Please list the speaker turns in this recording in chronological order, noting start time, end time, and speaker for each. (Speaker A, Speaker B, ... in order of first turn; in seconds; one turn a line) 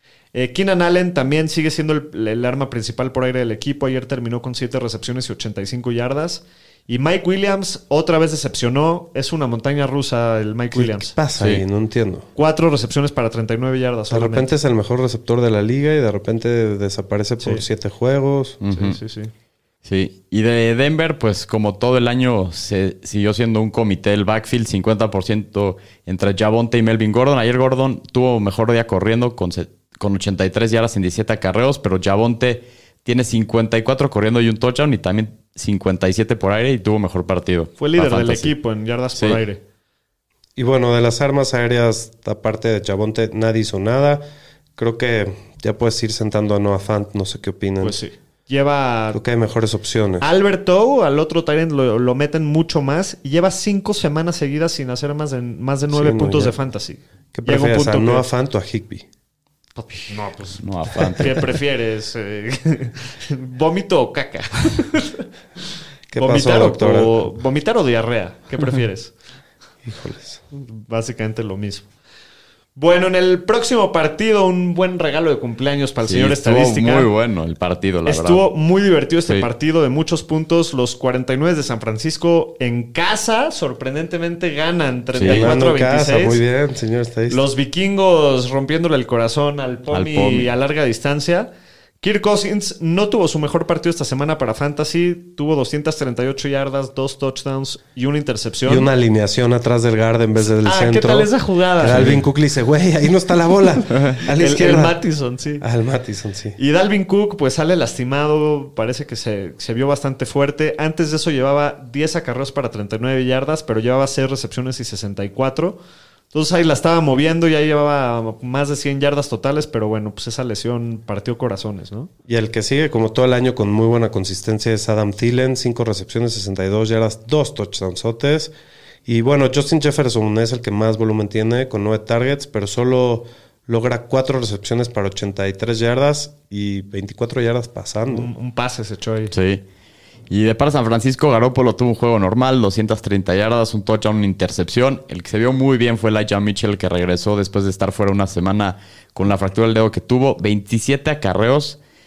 Speaker A: 0.3-11.2
Speaker B: 10.7-12.3
Speaker A: 12.4-14.5
Speaker B: 14.1-18.6
Speaker C: 18.6-19.0
Speaker A: 18.7-19.3
Speaker C: 19.9-38.5
Speaker A: 37.8-39.6
Speaker C: 39.2-39.4
Speaker B: 40.6-44.2
Speaker B: 44.8-48.0
Speaker A: 47.8-49.2
Speaker B: 49.1-50.3
Speaker A: 50.2-58.3
Speaker B: 55.9-56.6
Speaker B: 57.3-59.1
Speaker A: 59.8-60.6
Speaker C: 60.6-61.5
Speaker A: 61.1-65.3
Speaker B: 66.1-67.2
Speaker A: 66.2-69.1
Speaker B: 69.8-70.4
Speaker A: 70.5-71.9
Speaker A: 72.8-77.1
Speaker C: 76.0-78.5
Speaker A: 78.1-86.4
Speaker C: 85.2-85.5
Speaker B: 85.3-87.4
Speaker A: 87.3-98.9
Speaker C: 89.9-90.5
Speaker B: 98.7-105.0
Speaker A: 100.6-102.2
Speaker C: 101.8-102.2
Speaker A: 104.3-105.7
Speaker B: 105.6-106.6
Speaker A: 106.6-115.8
Speaker A: 116.3-122.1
Speaker B: 122.3-128.5
Speaker B: 129.1-138.3
Speaker A: 138.1-139.3
Speaker C: 139.3-139.6
Speaker C: 140.3-151.8